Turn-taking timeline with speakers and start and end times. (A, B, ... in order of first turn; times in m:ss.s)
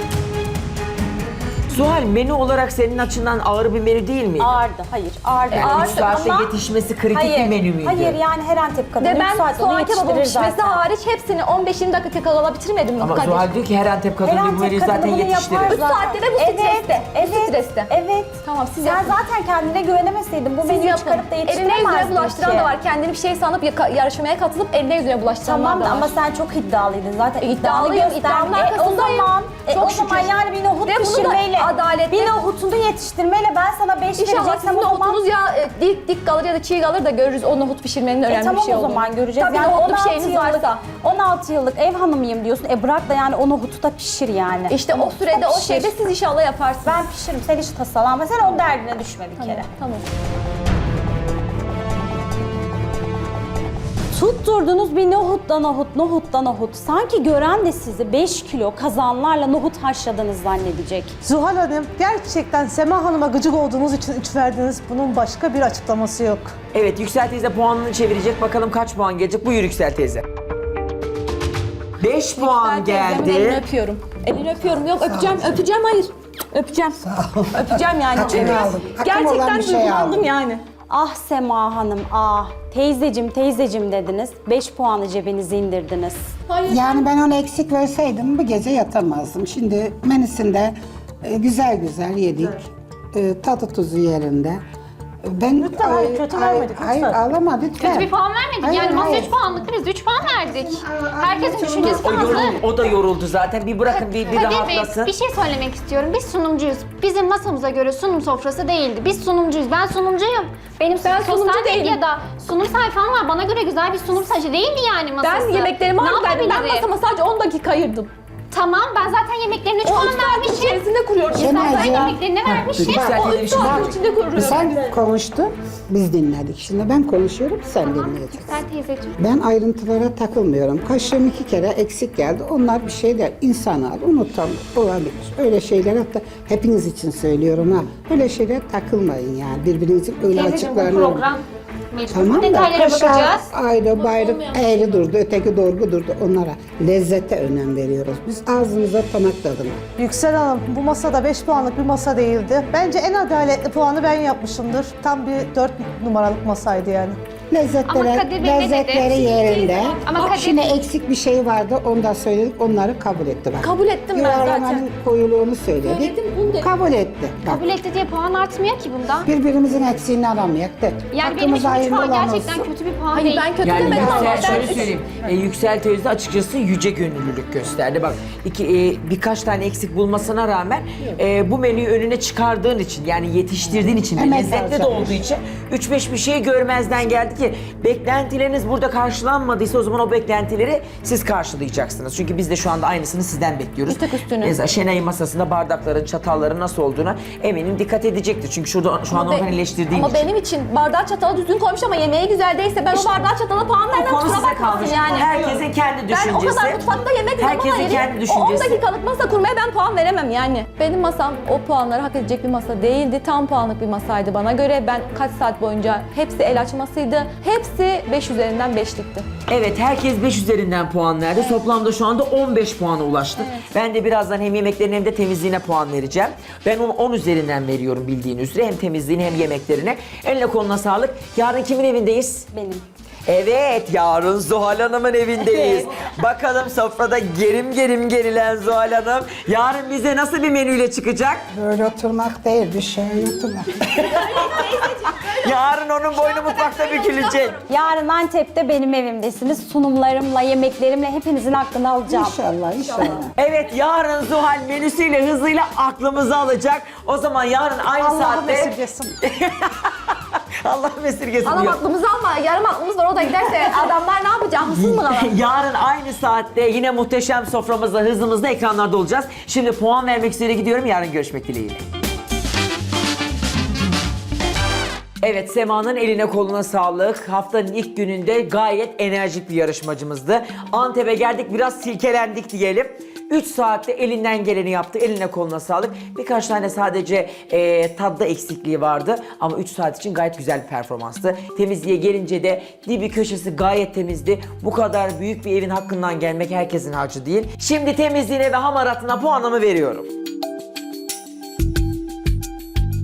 0:01.7-0:04.6 A
0:04.4-0:06.5 B
0:05.5-0:06.1 C
0:05.5-0:08.2 A
0:07.1-0:10.8 B
0:09.0-0:13.5 C
0:13.0-0:15.8 A
0:14.2-0:22.7 B
0:15.7-0:17.9 C
0:18.4-0:19.2 C
0:20.6-0:26.1 C
0:25.4-0:35.2 B
0:27.4-0:32.3 C
0:34.2-0:40.9 C
0:38.2-0:45.9 B
0:44.7-0:47.0 C
0:46.8-0:49.7 B
0:49.4-0:50.0 C
0:54.1-1:01.1 B
1:01.2-1:06.5 D
1:06.7-1:10.2 A
1:12.0-1:13.6 A
1:12.4-1:17.0 C
1:17.0-1:20.3 E
1:17.5-1:20.6 C
1:20.9-1:26.3 B
1:26.5-1:27.0 C
1:26.7-1:34.6 E
1:35.2-1:39.4 E
1:35.6-1:37.2 D
1:37.8-1:42.6 F
1:40.2-1:42.7 E
1:41.8-1:45.1 A
1:43.9-1:56.8 F
1:51.0-1:52.0 C
1:55.2-1:58.1 C
1:58.5-2:00.8 F
1:59.8-2:01.6 C
2:01.3-2:03.2 F
2:01.3-2:02.2 E
2:02.4-2:04.0 A
2:02.8-2:08.6 E
2:03.1-2:04.7 C
2:07.8-2:09.2 F
2:09.2-2:21.2 E
2:20.3-2:23.5 F
2:22.1-2:29.8 E
2:24.0-2:25.0 C
2:30.0-2:37.2 D
2:37.5-2:47.6 E
2:37.9-2:40.8 F
2:43.6-2:44.8 C
2:45.8-2:46.7 C
2:47.5-2:49.3 F
2:49.2-2:52.7 E
2:51.1-2:54.7 F
2:53.1-2:54.9 C
2:53.6-3:20.3 A
2:53.8-2:54.8 E
3:04.0-3:05.3 E
3:13.9-3:14.6 C
3:19.1-3:39.3 C
3:22.9-3:23.3 A
3:23.9-3:26.8 A
3:27.4-3:28.8 A
3:39.5-3:52.5 A
3:41.4-3:41.6 C
3:52.5-3:52.8 B
3:53.2-4:01.4 A
3:55.5-3:55.8 B
4:01.5-4:04.3 E
4:03.9-4:07.6 A
4:04.3-4:05.5 C
4:06.7-4:07.2 C
4:07.6-4:12.4 B
4:12.1-4:13.3 E
4:13.4-4:21.8 A
4:18.0-4:19.1 D
4:21.4-4:25.4 C
4:24.7-4:31.8 A
4:35.2-5:00.1 A